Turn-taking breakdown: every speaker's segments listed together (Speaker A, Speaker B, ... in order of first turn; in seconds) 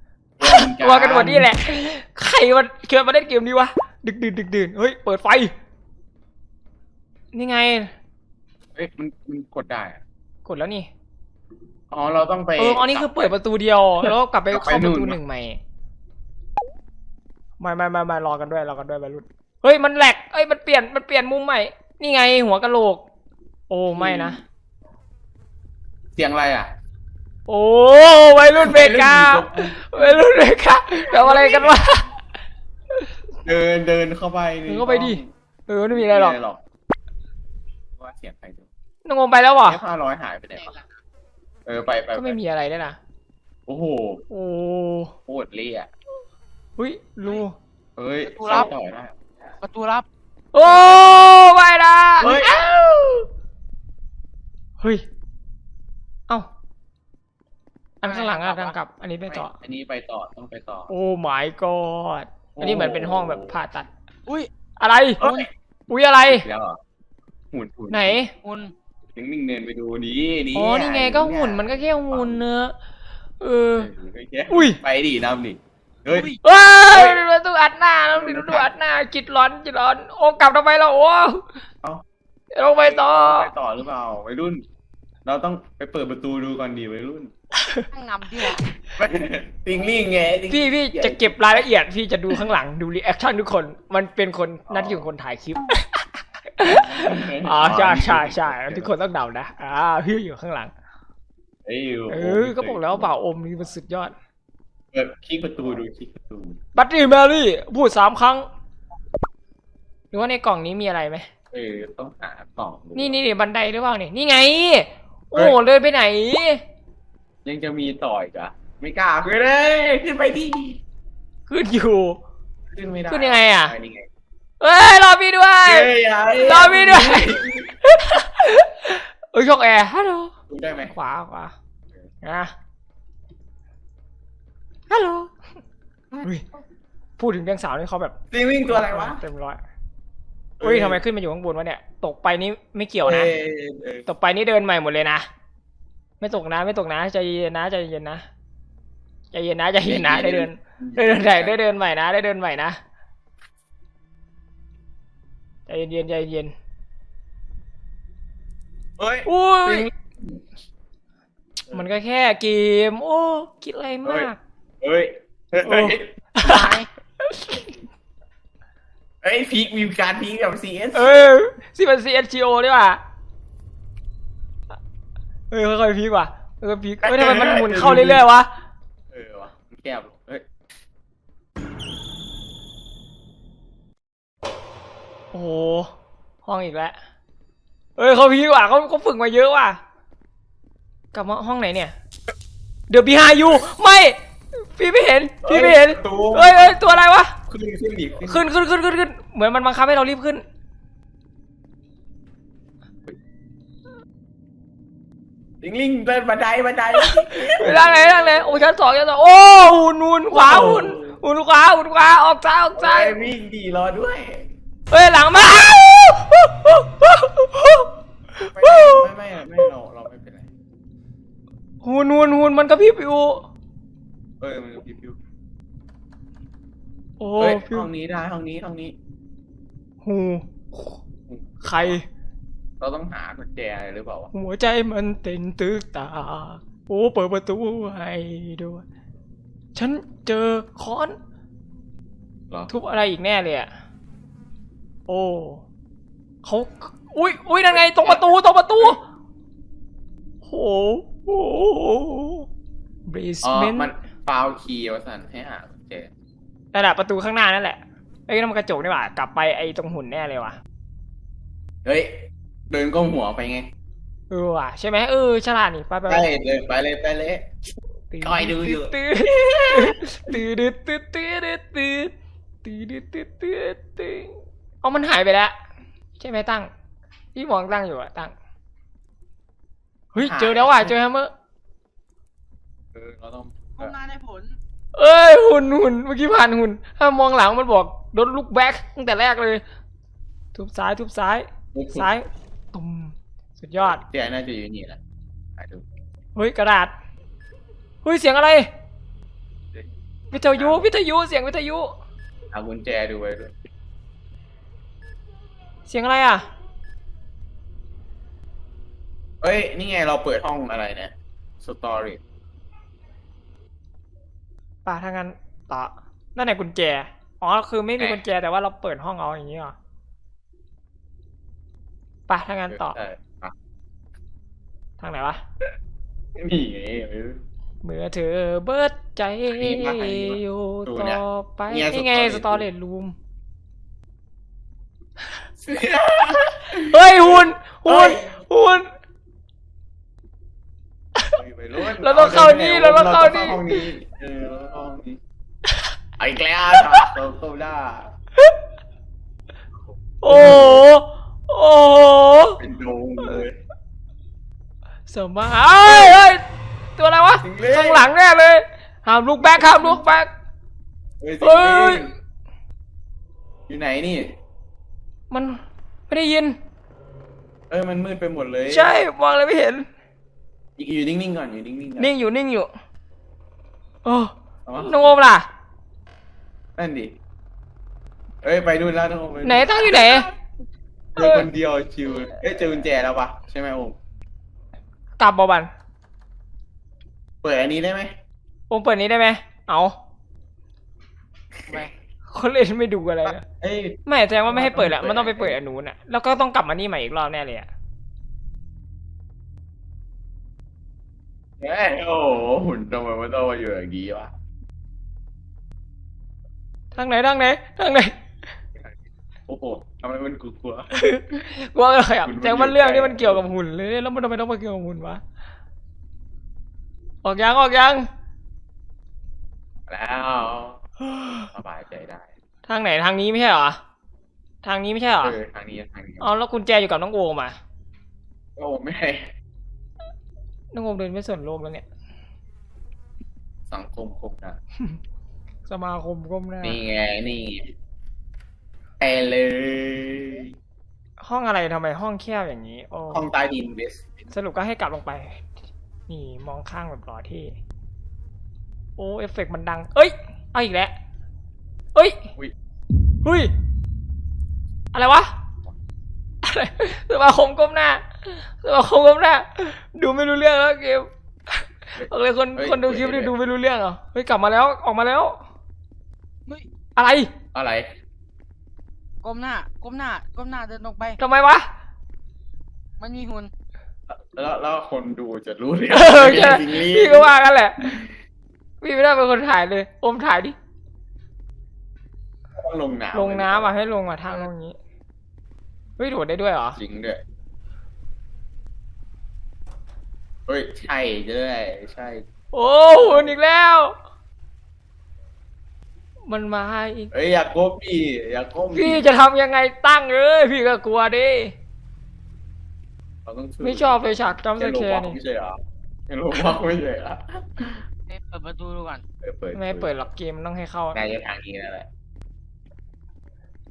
Speaker A: 0.4-1.5, 8.8-10.0, 11.9-13.4, 14.0-15.2, 23.9-24.4, 26.2-26.7, 28.5-30.3, 31.0-31.8, 33.4-35.3, 35.9-36.6, 38.0-38.7, 39.6-40.8, 41.7-42.4, 43.7-44.2, 45.3-45.9, 48.0-49.2, 50.6-51.3, 52.2-52.7, 59.3-60.9, 62.6-63.6, 65.2-65.5, 66.2-66.8, 67.5-68.2, 69.2-72.4, 73.8-76.3, 76.9-77.2, 78.1-78.7, 82.6-84.7, 85.2-87.3, 89.0-91.7, 94.7-95.1, 96.6-98.9, 101.7-103.2, 104.9-106.6, 111.5-113.2, 117.4-120.8, 122.7-124.1, 125.6-127.7, 130.5-130.9, 138.3-139.2, 140.6-141.0, 143.0-144.1, 149.8-151.6, 159.0-159.9, 164.1-164.3, 164.8-166.7, 169.2-171.3, 177.0-178.3, 179.1-180.5, 195.4-198.5, 205.6-208.6, 210.3-211.2, 212.8-214.5, 218.5-220.5, 224.4-225.2, 227.4-229.0, 231.3-232.0, 232.8-234.3, 247.7-248.3, 253.4-256.1, 261.8-263.7, 266.1-267.5, 268.2-270.0, 280.2-280.9, 282.9-283.9, 291.7-292.1, 293.8-295.0, 295.6-295.8, 299.7-300.9, 302.5-303.6, 309.4-312.2, 318.0-318.2, 322.7-323.6, 326.4-327.4, 329.5-332.7, 335.6-338.4, 341.3-345.2, 346.2-348.1, 350.3-350.9, 352.6-353.6, 355.8-356.2, 357.4-358.1, 359.4-360.0, 361.2-362.1, 363.7-364.4, 367.7-368.9, 370.8-372.1, 374.7-375.2, 376.8-377.2, 378.4-380.3, 381.2-384.0, 387.4-388.1, 393.2-395.6, 401.6-404.3, 409.5-410.9, 412.2-413.4, 419.9-422.3, 425.2-426.3, 428.6-429.3, 433.7-434.6, 436.6-437.7, 439.0-440.5, 443.1-444.2, 462.0-463.4, 467.5-467.9, 474.1-477.3, 482.6-483.7, 486.8-487.2, 490.5-492.2, 492.9-493.4, 497.1-499.1, 503.2-507.9, 509.2-509.9, 510.9-511.9
Speaker B: 0.4-5.5, 7.3-7.9, 10.4-10.9, 12.6-15.6, 17.6-23.0, 23.7-24.4, 27.5-32.1, 34.7-36.4, 39.0-39.8, 42.1-43.0, 44.3-45.1, 46.8-47.6, 50.5-53.3, 54.8-55.1, 58.0-59.5, 60.9-63.9, 64.8-65.2, 65.9-66.5, 67.9-68.3, 70.5-72.8, 73.4-73.9, 74.5-74.8, 76.4-81.5, 82.5-83.5, 90.5-96.0, 96.6-100.7, 102.1-104.1, 106.8-108.5, 110.1-111.3, 113.0-116.6, 121.5-122.2, 123.1-123.8, 124.6-131.6, 132.2-132.5, 134.9-135.3, 137.2-138.2, 138.7-139.6, 140.6-143.3, 144.1-145.3, 146.2-148.3, 149.3-152.8, 155.7-156.5, 159.3-159.9, 161.7-164.4, 165.6-167.8, 170.9-173.0, 175.5-178.5, 185.3-185.9, 186.4-187.0, 188.0-189.8, 191.1-191.9, 192.9-197.3, 198.2-200.4, 207.0-213.2, 214.9-219.1, 221.8-223.5, 227.2-227.9, 230.0-231.0, 231.6-232.1, 234.3-238.8, 239.8-241.2, 242.7-243.7, 245.1-245.6, 246.4-249.0, 250.4-252.5, 253.1-253.9, 256.7-260.6, 264.3-266.3, 268.1-272.1, 272.6-275.6, 276.2-276.7, 277.4-278.3, 280.1-281.3, 284.9-289.6, 290.6-294.0, 296.4-296.9, 298.0-298.7, 300.3-301.9, 305.9-306.5, 314.9-319.8, 322.3-323.0, 325.0-325.4, 327.8-333.2, 336.7-338.9, 341.2-343.9, 346.8-347.1, 350.2-352.6, 355.1-356.4, 357.0-360.3, 361.4-362.1, 365.3-366.6, 368.7-369.9, 372.0-372.7, 374.1-375.5, 379.4-380.3, 381.2-381.5, 385.2-385.7, 388.7-390.0, 392.3-393.4, 394.1-397.7, 406.9-408.2, 410.9-415.2, 417.2-418.1, 421.1-421.5, 422.7-423.8, 424.6-425.4, 426.2-427.6, 430.7-431.9, 435.7-436.8, 441.2-443.3, 444.3-445.4, 446.1-447.6, 449.0-450.9, 451.9-452.3, 453.2-453.5, 454.9-455.3, 456.4-465.4, 467.0-467.3, 471.2-471.7, 475.9-478.0, 478.8-480.6, 483.1-484.8, 486.0-486.8, 492.5-494.0, 496.3-497.1, 498.7-501.5, 503.6-505.2, 509.5-511.0
Speaker C: 40.6-40.9, 48.2-48.7, 49.6-50.1, 58.0-58.8, 68.4-68.7, 76.1-76.4, 87.9-88.6, 166.4-166.9, 283.8-284.6, 469.2-471.2, 473.0-473.5, 508.1-509.0